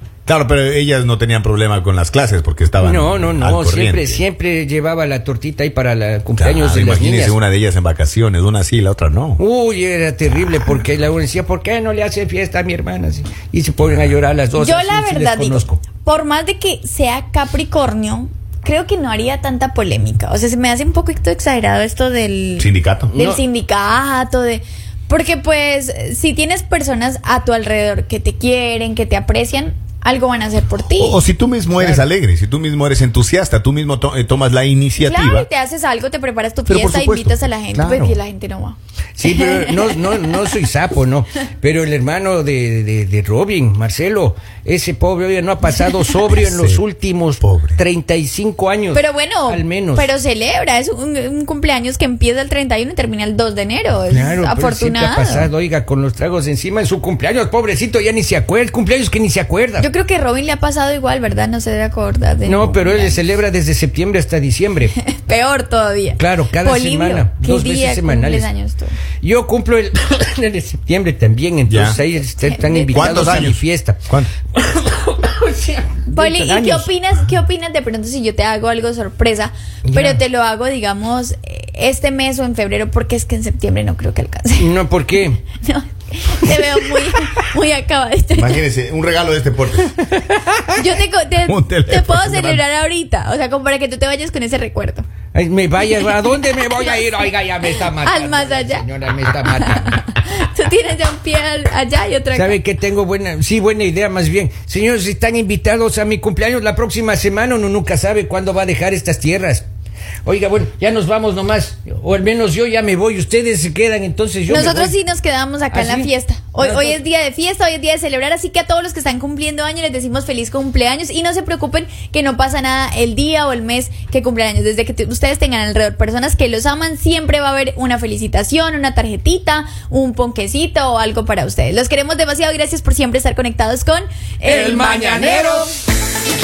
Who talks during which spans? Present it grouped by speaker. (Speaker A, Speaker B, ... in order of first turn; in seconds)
Speaker A: 0.2-4.2, 6.4-9.4, 13.8-14.1, 22.6-23.1, 30.9-35.5, 36.6-38.2, 46.3-46.8, 47.4-47.8, 71.7-72.0, 72.9-74.3, 88.3-90.1, 91.5-92.6
Speaker B: 2.8-7.4, 9.4-15.8, 23.1-23.4, 31.8-32.1, 39.2-50.1, 54.1-59.9, 62.4-64.9, 66.2-68.5, 69.2-76.9, 79.9-80.2, 84.6-85.4, 90.2-90.7, 95.3-100.0, 102.3-109.6, 110.2-115.0, 115.7-117.0, 134.4-135.7
Speaker C: 14.6-31.2, 35.0-40.5, 48.9-55.5, 59.8-63.2, 65.0-69.0, 72.4-73.4, 76.1-84.7, 85.5-88.6, 90.7-95.0, 95.9-97.2, 97.9-98.9, 99.4-102.6, 114.5-135.8